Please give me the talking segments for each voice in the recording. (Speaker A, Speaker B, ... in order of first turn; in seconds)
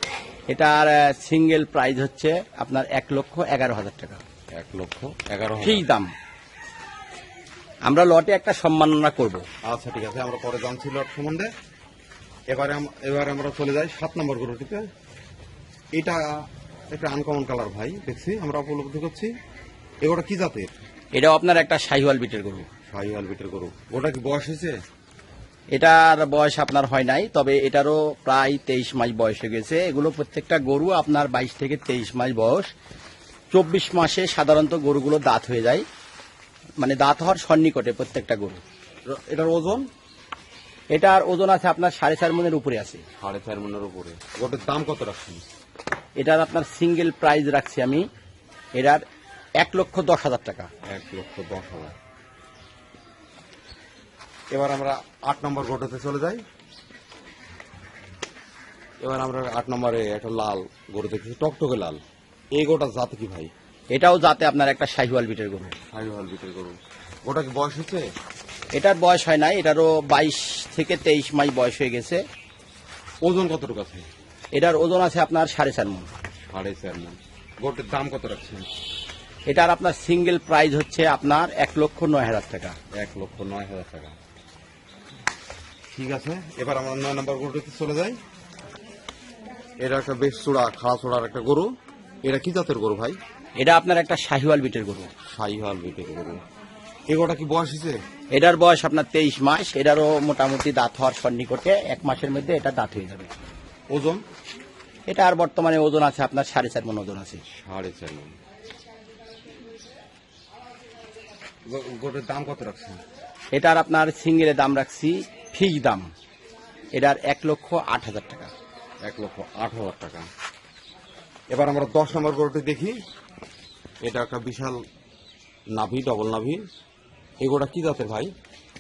Speaker A: 0.5-4.2, 5.6-6.1, 7.8-9.5, 21.1-22.7, 25.7-32.7, 33.5-35.9, 36.8-38.6, 40.9-43.0, 46.2-48.1, 48.8-49.0, 49.6-50.7, 63.9-65.8, 68.7-72.2, 74.5-76.1, 79.5-82.8, 93.6-95.1, 98.3-103.3, 105.1-107.4, 113.5-116.1, 117.0-118.5
Speaker B: 4.5-5.9, 9.6-11.5, 12.5-14.9, 15.9-19.3, 20.0-20.8, 22.9-24.8, 39.1-39.9, 43.2-45.4, 50.8-52.0, 54.5-56.4, 59.0-62.0, 62.5-63.5, 65.9-68.1, 73.2-74.1, 76.5-78.7, 82.9-84.2, 85.9-88.2, 89.8-93.2, 95.3-96.4, 97.1-98.0, 103.9-104.2, 107.5-108.3, 111.7-113.0, 119.0-120.3, 121.5-123.0, 124.0-124.8, 125.7-126.7, 127.4-128.3